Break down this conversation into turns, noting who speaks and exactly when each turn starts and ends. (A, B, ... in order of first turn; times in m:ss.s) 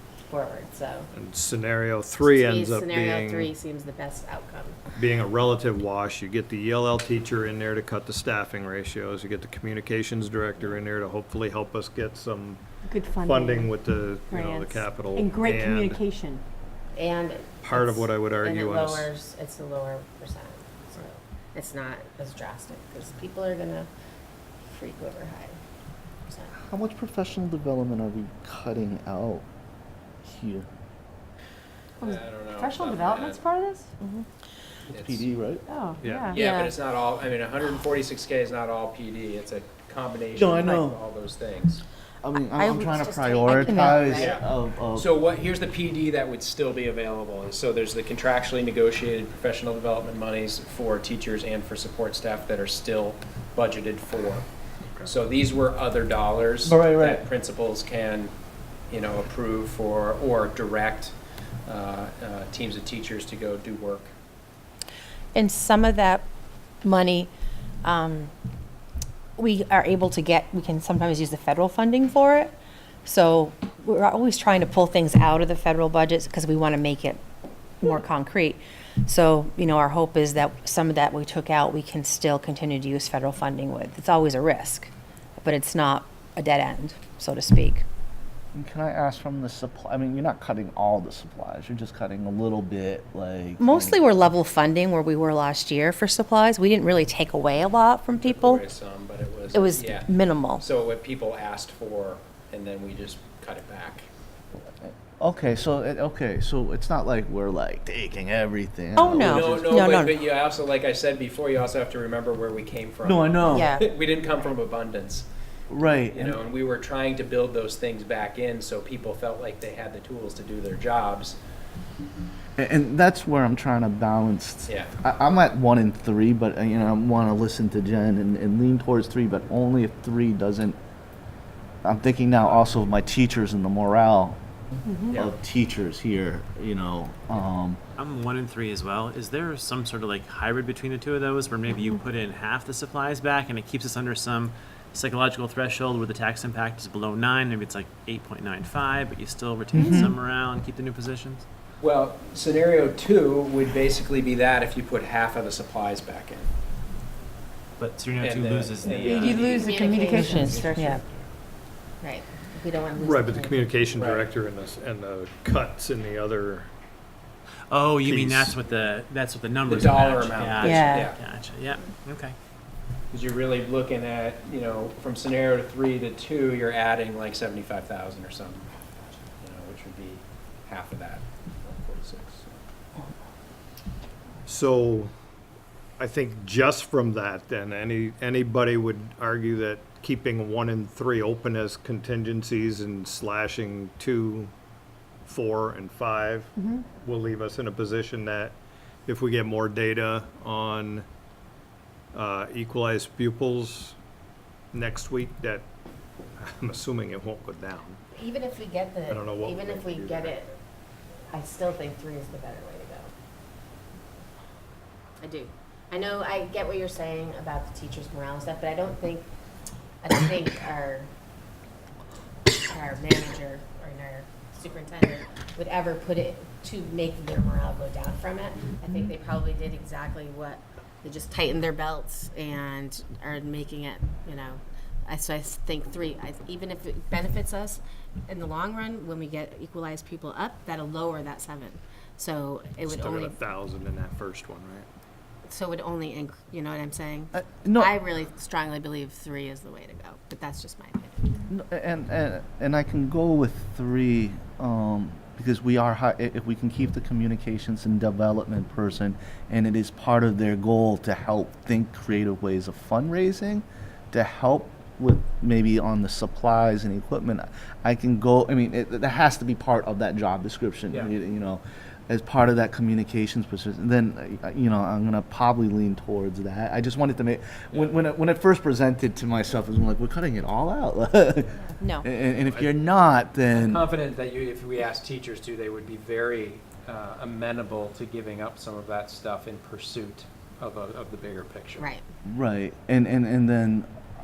0:00.3-0:01.1 A
0:01.1-0:03.5 B
0:02.2-0:04.8 A
0:05.0-0:12.6 B
0:12.9-0:13.7 C
0:13.2-0:16.0 B
0:14.3-0:16.4 C
0:17.0-0:23.9 A
0:17.6-0:19.1 B
0:24.6-0:25.6 A
0:26.3-0:26.6 A
0:26.6-0:29.4 D
0:30.2-0:30.7 D
0:32.0-0:33.5 E
0:32.0-0:33.9 C
0:34.9-0:35.2 E
0:34.9-0:35.6 D
0:35.7-0:36.5 C
0:36.0-0:36.4 B
0:36.3-0:41.8 E
0:36.4-0:36.7 F
0:40.3-0:41.0 D
0:42.2-0:45.1 D
0:42.6-0:44.3 F
0:43.4-0:43.7 A
0:44.2-0:54.5 E
0:55.0-0:58.3 E
0:56.6-0:57.2 D
0:58.9-1:01.2 E
1:01.7-1:04.1 E
1:05.4-1:06.3 F
1:06.8-1:07.3 F
1:07.8-1:08.3 F
1:09.4-1:17.2 F
1:17.8-1:24.9 F
1:25.4-1:27.8 F
1:28.5-1:34.0 D
1:33.6-1:38.6 F
1:38.2-1:44.1 E
1:39.5-1:40.6 F
1:45.2-1:49.8 D
1:49.0-1:50.2 F
1:49.2-1:55.3 E
1:53.0-1:53.8 D
1:53.5-1:53.9 F
1:55.7-1:56.4 D
1:56.0-2:01.4 E
2:02.6-2:10.8 D
2:04.7-2:04.9 E
2:11.8-2:14.4 D
2:14.9-2:15.2 C
2:15.1-2:15.3 E
2:15.1-2:17.8 D
2:18.0-2:31.4 G
2:29.7-2:30.1 D
2:31.8-2:36.5 E
2:37.8-2:39.4 G
2:38.2-2:39.8 E
2:38.9-2:41.0 C
2:39.4-2:40.5 A
2:40.1-2:41.0 F
2:42.0-2:43.6 A
2:43.0-2:46.7 B
2:44.0-2:44.3 E
2:47.7-2:52.4 G
2:48.0-2:48.5 D
2:49.7-2:51.2 E
2:50.6-2:51.0 F
2:53.1-2:58.7 E
2:59.4-3:02.5 E
3:04.5-3:05.1 B
3:06.0-3:14.5 B
3:15.3-3:18.6 B
3:19.1-3:21.0 B
3:22.1-3:24.0 B
3:24.7-3:25.7 B
3:26.4-3:28.0 B
3:28.1-3:30.5 A
3:29.1-3:30.4 B
3:31.3-3:33.1 A
3:35.2-3:39.3 A
3:40.0-3:41.1 A
3:42.7-4:03.4 A
4:02.8-4:04.9 B
4:05.5-4:11.4 A
4:07.3-4:07.9 D
4:11.5-4:43.9 D
4:37.7-4:38.0 E
4:41.8-4:42.1 F
4:43.5-4:51.9 E
4:51.8-4:52.0 A
4:52.2-4:53.9 D